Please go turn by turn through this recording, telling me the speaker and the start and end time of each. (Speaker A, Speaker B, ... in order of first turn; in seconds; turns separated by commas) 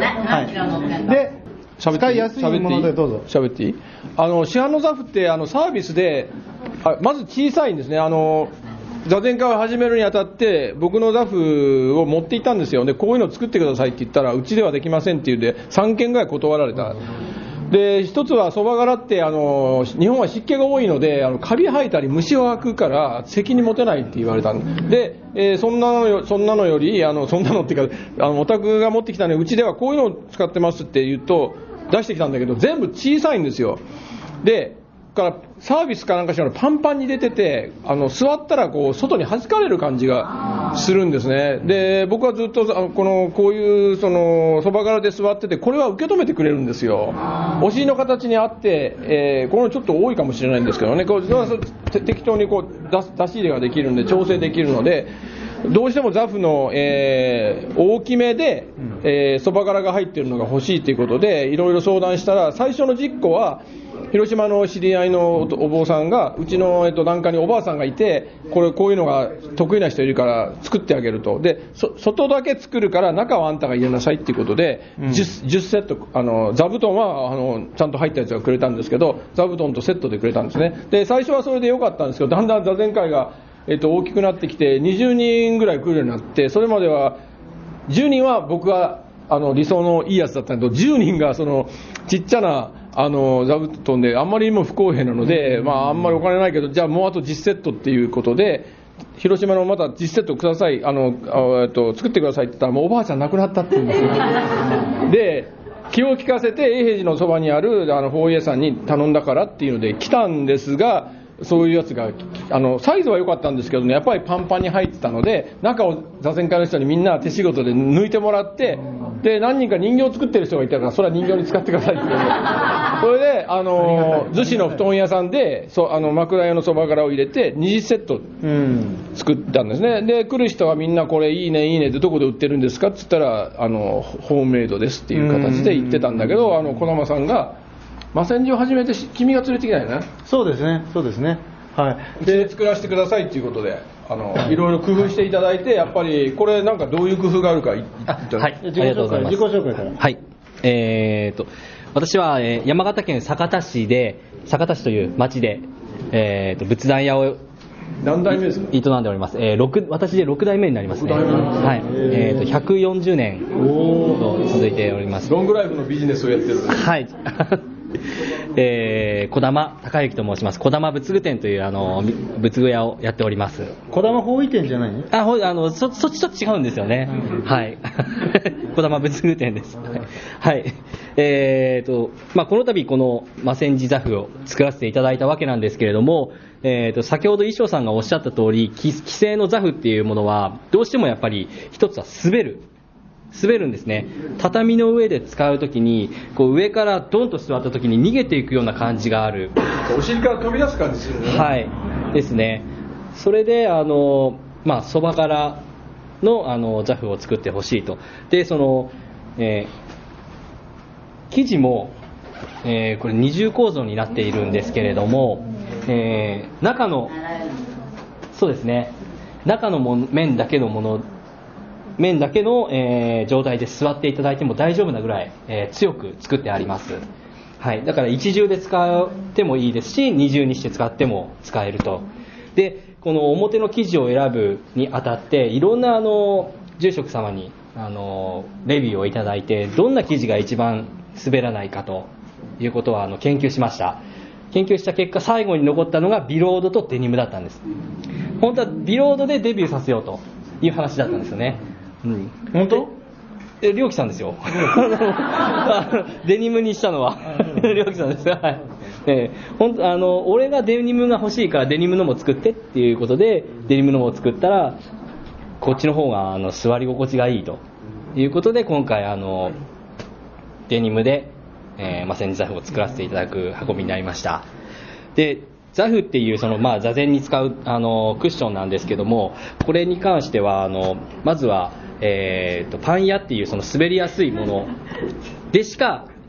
Speaker A: 0.2-3.3, Speaker B: 1.8-6.3, Speaker B: 6.8-8.5, Speaker B: 9.1-17.0, Speaker B: 17.7-33.8, Speaker B: 34.4-55.1, Speaker B: 55.6-87.2, Speaker A: 75.0-75.3, Speaker B: 87.9-128.3, Speaker A: 128.4-129.0, Speaker B: 129.1-137.6, Speaker A: 135.1-136.1, Speaker B: 138.1-140.1, Speaker A: 140.3-142.5, Speaker B: 142.2-148.5, Speaker C: 148.1-157.4, Speaker A: 148.6-150.0, Speaker B: 158.0-158.7, Speaker C: 158.7-165.3, Speaker B: 160.9-161.9, Speaker A: 161.7-162.6, Speaker A: 163.6-164.3, Speaker B: 165.2-166.8, Speaker C: 166.7-167.6, Speaker C: 168.6-173.8, Speaker A: 173.9-175.1, Speaker C: 175.1-192.7, Speaker C: 193.3-199.6, Speaker B: 199.8-201.5, Speaker C: 201.2-205.6, Speaker C: 206.2-209.7, Speaker C: 211.3-212.0, Speaker C: 212.6-217.2, Speaker C: 218.3-221.1, Speaker C: 222.0-227.0, Speaker C: 227.6-247.7, Speaker C: 248.4-252.9, Speaker B: 252.5-252.9, Speaker C: 253.6-264.8, Speaker C: 265.6-267.6, Speaker C: 268.1-269.6, Speaker C: 270.7-274.4, Speaker C: 275.1-284.7, Speaker C: 285.5-286.1